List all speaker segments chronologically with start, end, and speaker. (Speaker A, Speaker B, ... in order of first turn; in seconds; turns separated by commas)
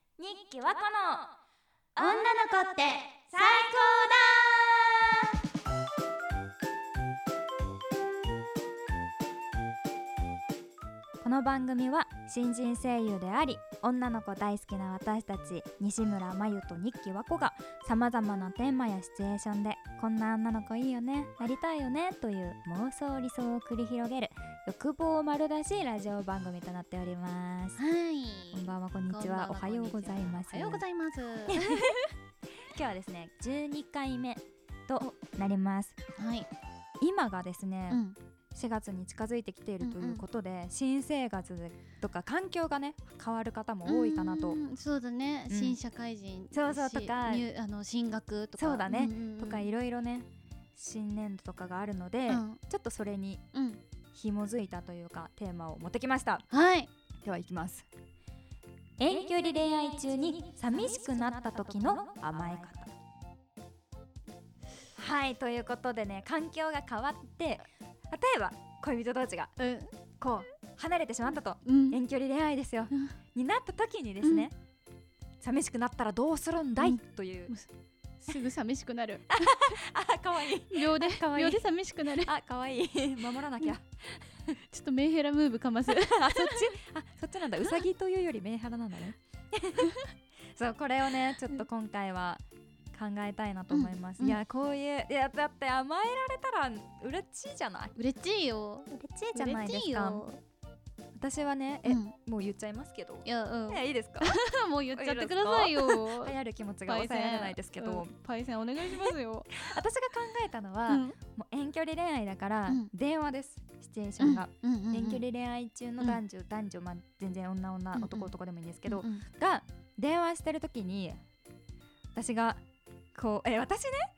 Speaker A: 0.2-1.3, Speaker A: 1.9-2.4, Speaker B: 2.0-3.1, Speaker A: 3.1-5.2, Speaker A: 11.2-27.8, Speaker B: 27.8-32.0, Speaker A: 28.5-30.8, Speaker A: 31.5-31.9, Speaker A: 32.7-36.0, Speaker B: 36.2-36.5, Speaker A: 37.0-38.0, Speaker B: 37.9-38.2, Speaker A: 38.5-44.6, Speaker B: 39.8-40.2, Speaker B: 43.8-49.7, Speaker A: 45.5-45.8, Speaker A: 46.5-47.5, Speaker A: 48.6-53.4, Speaker B: 52.3-52.6, Speaker B: 53.5-53.8, Speaker A: 54.1-56.5, Speaker B: 56.5-56.9, Speaker A: 57.2-57.9, Speaker A: 59.0-62.9, Speaker A: 65.0-69.5, Speaker B: 69.6-69.9, Speaker A: 70.2-74.5, Speaker B: 71.6-72.0, Speaker B: 74.2-74.5, Speaker A: 75.4-77.5, Speaker B: 76.8-77.7, Speaker B: 78.2-79.8, Speaker A: 79.3-84.6, Speaker B: 80.7-82.3, Speaker B: 84.7-86.7, Speaker A: 85.9-89.9, Speaker A: 90.5-97.9, Speaker B: 93.7-94.4, Speaker B: 98.0-100.4, Speaker A: 98.9-100.3, Speaker A: 101.2-104.3, Speaker B: 101.8-102.1, Speaker B: 103.2-106.3, Speaker A: 104.9-108.1, Speaker B: 106.8-109.5, Speaker A: 108.8-121.2, Speaker B: 110.9-111.2, Speaker B: 114.2-115.2, Speaker B: 117.9-118.3, Speaker B: 118.8-119.2, Speaker A: 122.1-122.6, Speaker A: 123.1-124.1